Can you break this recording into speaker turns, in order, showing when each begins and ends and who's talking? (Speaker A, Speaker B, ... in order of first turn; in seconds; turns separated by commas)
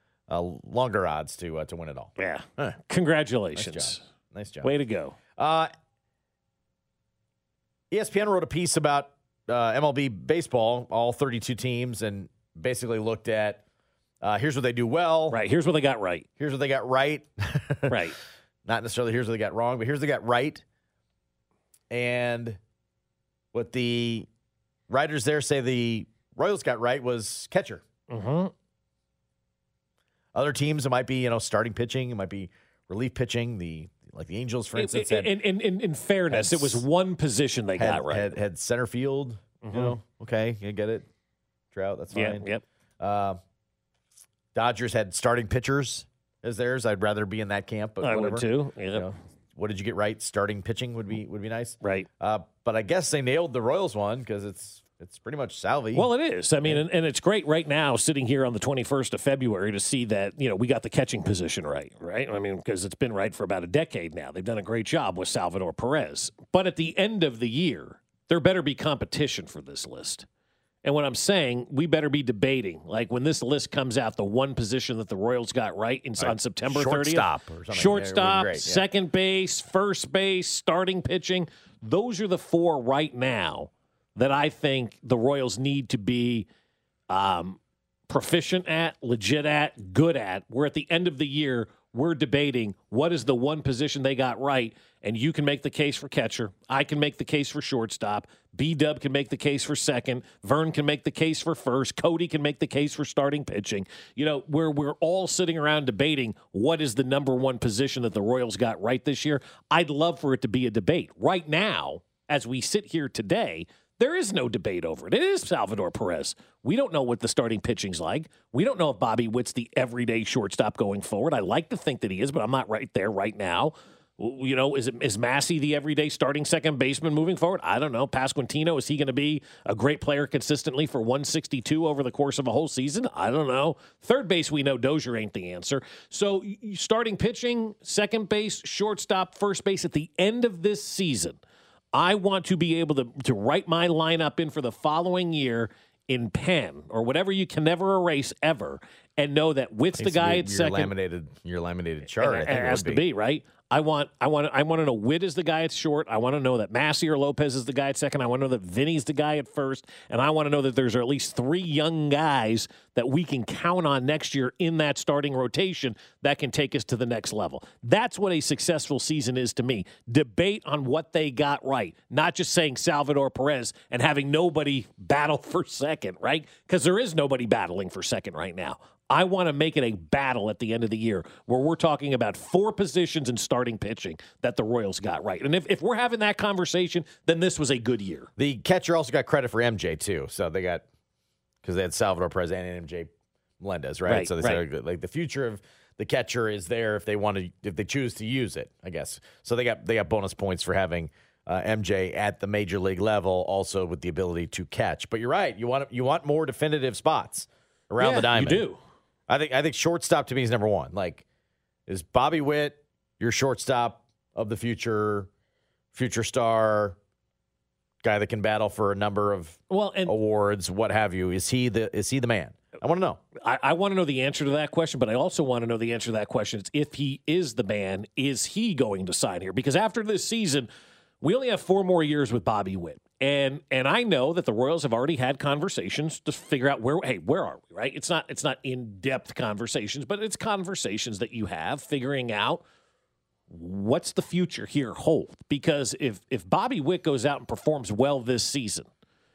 Speaker A: 0.3-2.8, Speaker B: 2.2-4.0, Speaker A: 3.5-4.7, Speaker B: 4.6-5.2, Speaker A: 5.4-5.7, Speaker A: 7.9-13.6, Speaker A: 14.2-15.4, Speaker B: 15.3-16.3, Speaker A: 16.4-18.1, Speaker B: 17.9-18.2, Speaker A: 18.6-20.6, Speaker A: 21.9-22.6, Speaker A: 23.5-24.3, Speaker A: 24.9-27.8, Speaker B: 28.1-28.5, Speaker A: 30.3-35.4, Speaker B: 34.8-38.4, Speaker A: 36.3-36.9, Speaker A: 37.8-41.1, Speaker B: 39.6-40.0, Speaker A: 41.7-42.5, Speaker B: 42.1-42.6, Speaker A: 43.0-43.4, Speaker A: 44.5-56.1, Speaker B: 48.0-49.1, Speaker B: 51.8-52.1, Speaker B: 55.9-70.3, Speaker B: 70.8-86.5, Speaker A: 76.2-78.8, Speaker B: 87.1-141.4, Speaker B: 141.9-150.9, Speaker A: 149.9-153.0, Speaker B: 152.2-188.3, Speaker A: 188.4-190.8, Speaker A: 191.6-208.7, Speaker B: 194.1-194.6, Speaker B: 208.0-208.8, Speaker A: 209.3-211.2, Speaker A: 211.9-215.3, Speaker A: 215.9-217.0, Speaker A: 218.0-223.2, Speaker B: 219.7-220.2, Speaker B: 223.4-230.7, Speaker B: 231.2-242.6, Speaker B: 243.5-248.9